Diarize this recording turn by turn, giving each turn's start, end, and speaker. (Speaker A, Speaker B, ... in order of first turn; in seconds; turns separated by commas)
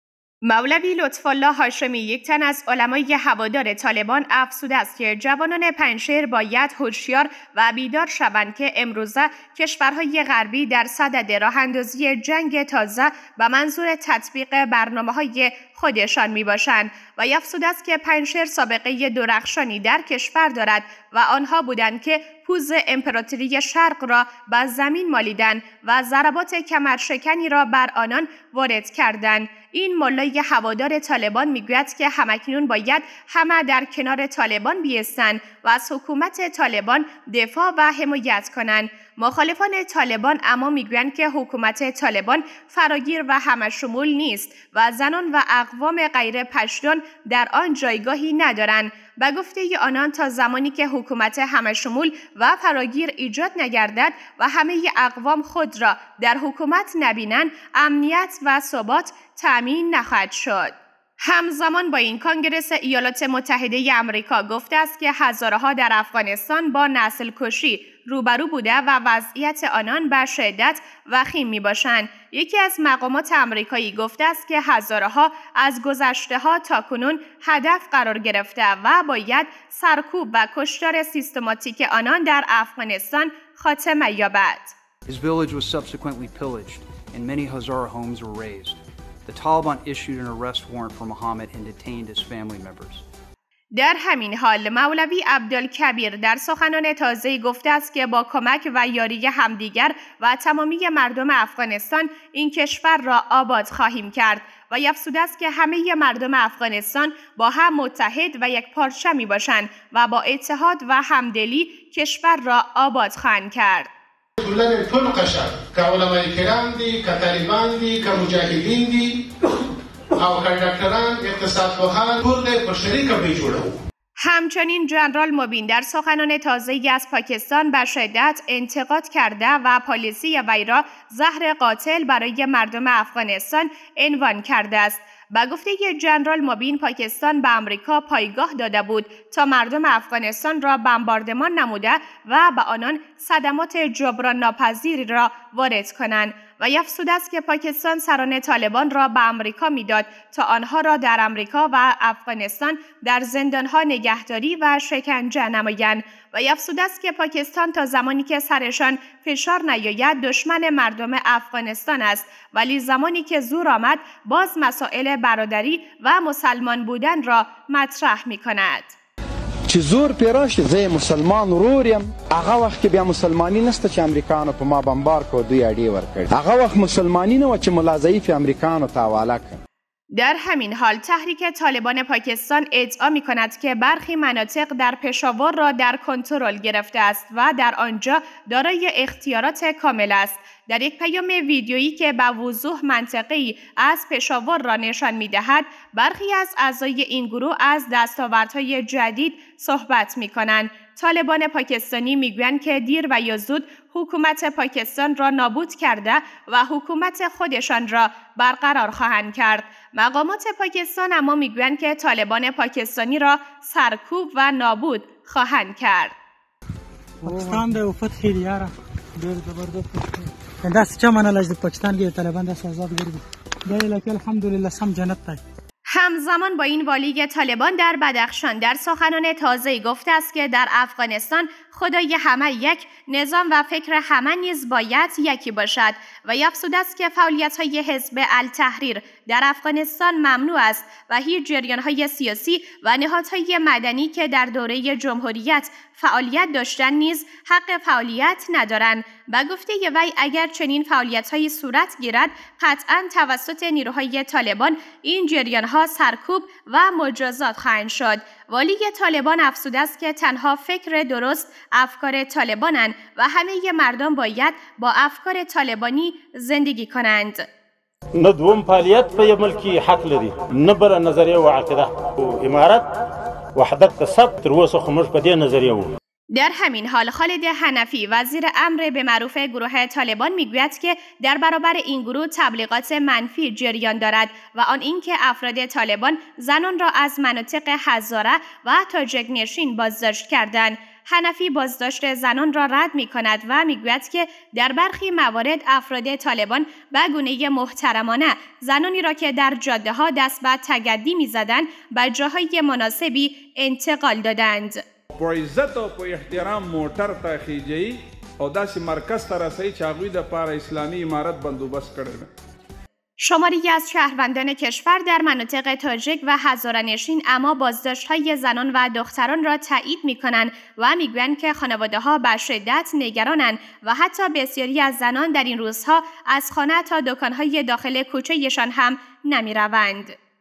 Speaker A: 0.4-84.7, Speaker B: 85.1-93.0, Speaker A: 93.8-113.9, Speaker C: 114.4-119.2, Speaker C: 120.2-123.8, Speaker A: 124.2-168.9, Speaker D: 169.7-179.6, Speaker A: 180.1-216.1, Speaker E: 217.2-225.4, Speaker A: 225.9-267.4, Speaker F: 268.2-272.8, Speaker F: 273.6-275.9, Speaker A: 276.3-304.8, Speaker G: 305.2-312.3, Speaker A: 313.2-330.1